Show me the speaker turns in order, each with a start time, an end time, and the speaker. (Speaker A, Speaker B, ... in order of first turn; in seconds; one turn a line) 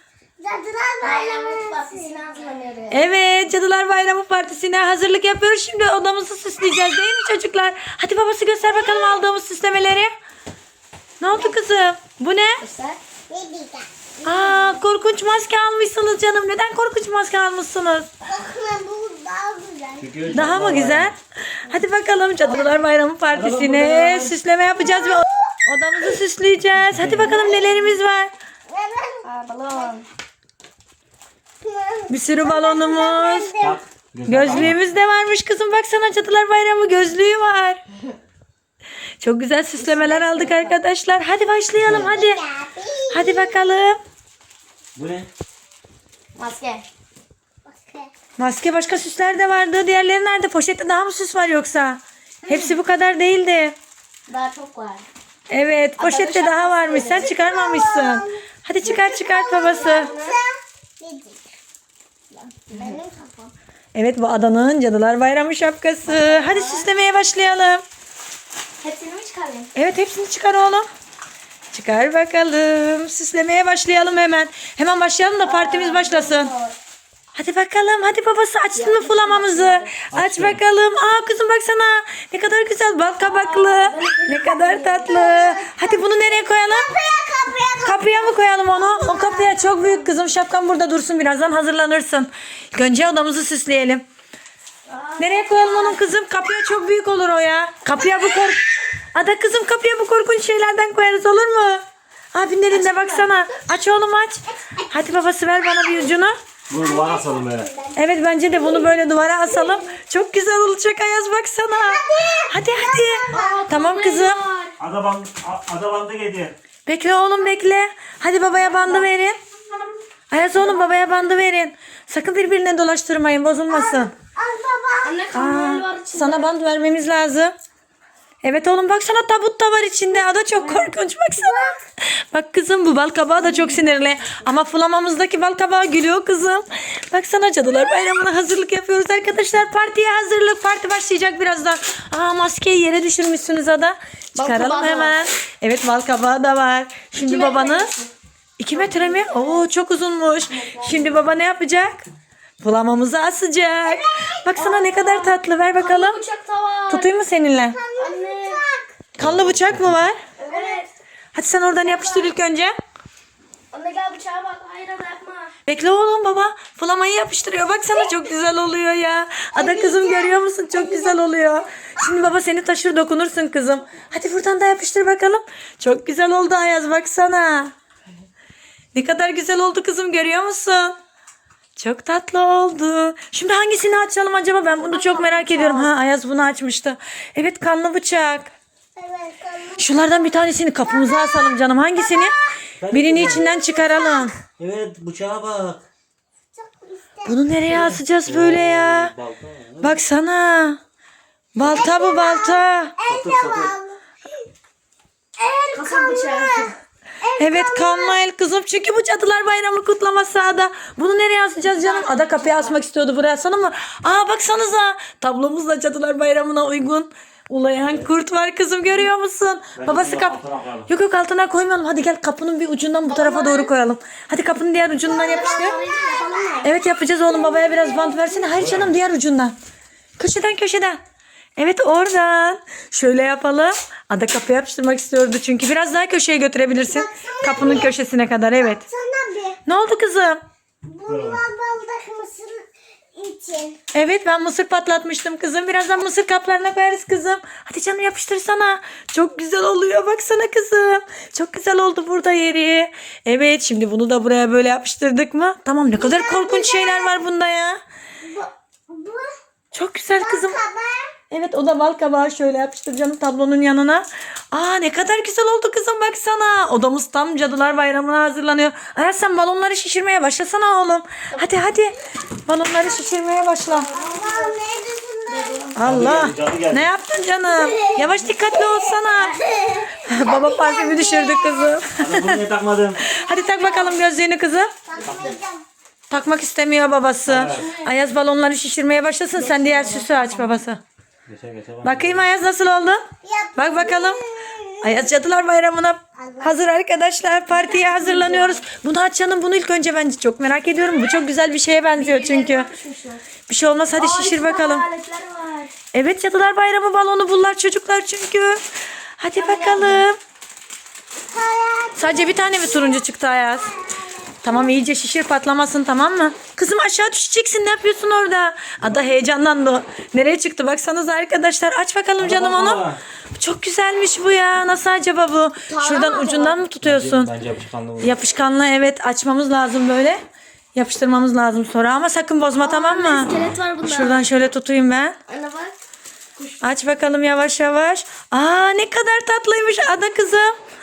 Speaker A: 0.4-2.3
Speaker B: 1.0-3.0
Speaker C: 2.9-10.1
Speaker A: 8.6-9.2
Speaker C: 11.2-12.6
Speaker A: 11.3-11.7
Speaker B: 12.6-13.0
Speaker A: 13.3-14.8
Speaker C: 14.2-18.1
Speaker A: 18.2-20.1
Speaker D: 20.0-21.1
Speaker C: 20.3-28.3
Speaker B: 22.4-22.8
Speaker D: 23.3-24.4
Speaker A: 24.8-25.5
Speaker D: 26.9-27.4
Speaker A: 27.2-27.7
Speaker A: 28.7-29.9
Speaker B: 29.2-30.1
Speaker A: 31.6-33.8
Speaker C: 32.1-33.5
Speaker D: 33.6-34.8
Speaker C: 34.3-37.8
Speaker C: 39.2-42.4
Speaker B: 39.8-40.8
Speaker A: 41.8-43.7
Speaker C: 43.1-44.0
Speaker D: 45.0-45.3
Speaker B: 46.4-46.9
Speaker A: 47.6-48.1
Speaker C: 48.4-53.8
Speaker B: 52.4-52.8
Speaker B: 54.3-55.0
Speaker C: 55.5-60.1
Speaker B: 56.0-57.3
Speaker A: 56.9-61.5
Speaker B: 59.6-60.4
Speaker A: 62.6-63.5
Speaker B: 62.7-63.0
Speaker C: 63.9-67.8
Speaker B: 66.0-66.9
Speaker B: 68.8-69.7
Speaker C: 69.7-70.8
Speaker C: 71.7-76.5
Speaker B: 75.4-76.7
Speaker C: 77.3-86.9
Speaker B: 78.7-80.0
Speaker D: 80.1-80.6
Speaker B: 83.2-85.2
Speaker A: 85.0-89.9
Speaker C: 87.8-94.0
Speaker B: 94.9-96.0
Speaker C: 95.2-106.3
Speaker B: 102.7-103.3
Speaker D: 106.7-107.7
Speaker A: 106.8-108.0
Speaker C: 107.9-114.4
Speaker A: 108.5-108.9
Speaker A: 109.5-109.8
Speaker A: 111.8-113.7
Speaker B: 113.3-114.7
Speaker D: 114.8-116.5
Speaker C: 116.8-119.4
Speaker C: 120.3-124.1
Speaker A: 123.7-125.2
Speaker B: 125.0-126.5
Speaker C: 125.3-127.5
Speaker C: 128.4-147.9
Speaker B: 130.5-130.9
Speaker A: 131.4-131.8
Speaker B: 144.3-145.2
Speaker B: 147.2-148.1
Speaker C: 148.6-152.0
Speaker B: 148.7-149.6
Speaker B: 150.5-151.2
Speaker C: 152.6-156.2
Speaker A: 153.8-155.0
Speaker B: 154.6-157.1
Speaker C: 156.9-157.8
Speaker A: 157.7-158.9
Speaker B: 158.0-158.6
Speaker C: 159.2-160.2
Speaker B: 160.4-160.9
Speaker A: 160.5-160.8
Speaker C: 161.3-162.7
Speaker B: 161.8-162.3
Speaker B: 163.7-165.5
Speaker C: 165.7-177.7
Speaker A: 169.5-172.1
Speaker C: 178.9-181.0
Speaker C: 181.8-188.5
Speaker A: 184.9-185.9
Speaker A: 189.0-192.6
Speaker C: 189.8-192.3
Speaker D: 192.8-193.4
Speaker C: 192.9-194.4
Speaker A: 193.2-194.4
Speaker D: 194.6-195.8
Speaker A: 196.6-197.6
Speaker C: 197.2-199.1
Speaker D: 197.7-200.0
Speaker C: 199.8-200.8
Speaker C: 201.5-202.9
Speaker A: 201.6-204.0
Speaker D: 203.0-203.7
Speaker A: 205.4-208.2
Speaker B: 205.7-206.7
Speaker C: 207.4-225.8
Speaker B: 211.8-212.7
Speaker D: 219.8-220.9
Speaker A: 223.1-223.7
Speaker A: 225.0-226.6
Speaker B: 225.0-226.7
Speaker C: 226.6-229.5
Speaker A: 227.3-228.5
Speaker D: 228.5-228.9
Speaker C: 230.2-231.0
Speaker C: 231.6-238.8
Speaker A: 236.7-237.9
Speaker D: 237.6-237.9
Speaker A: 238.5-239.6
Speaker C: 239.7-240.4
Speaker A: 240.8-242.6
Speaker D: 241.1-241.4
Speaker A: 243.2-243.8
Speaker C: 243.9-257.8
Speaker A: 255.9-257.2
Speaker A: 258.2-259.3
Speaker C: 259.7-260.6
Speaker A: 260.1-261.1
Speaker C: 261.3-273.9
Speaker B: 273.7-274.6
Speaker A: 273.9-275.7
Speaker B: 275.3-275.8
Speaker C: 275.8-279.4
Speaker D: 275.8-276.9
Speaker A: 277.4-281.8
Speaker C: 280.0-282.4
Speaker D: 282.0-283.0
Speaker C: 283.0-284.7
Speaker A: 283.1-284.0
Speaker A: 284.9-285.6
Speaker B: 285.0-285.4
Speaker C: 286.1-290.8
Speaker D: 287.3-287.7
Speaker B: 287.5-287.9
Speaker B: 289.4-290.4
Speaker D: 291.3-292.3
Speaker C: 291.8-293.0
Speaker A: 293.2-295.1
Speaker C: 293.6-294.2
Speaker C: 294.8-302.7
Speaker A: 296.2-296.5
Speaker B: 297.5-298.6
Speaker B: 301.9-303.2
Speaker C: 303.5-304.9
Speaker B: 303.9-305.7
Speaker C: 305.9-308.6
Speaker C: 309.2-310.2
Speaker B: 309.4-310.1
Speaker A: 311.3-314.6
Speaker C: 312.0-313.8
Speaker C: 314.4-327.3
Speaker D: 322.2-323.0
Speaker B: 325.7-326.6
Speaker D: 326.8-328.2
Speaker C: 328.0-330.2
Speaker C: 330.7-335.2
Speaker B: 332.6-334.3
Speaker B: 335.3-335.7
Speaker C: 336.6-340.5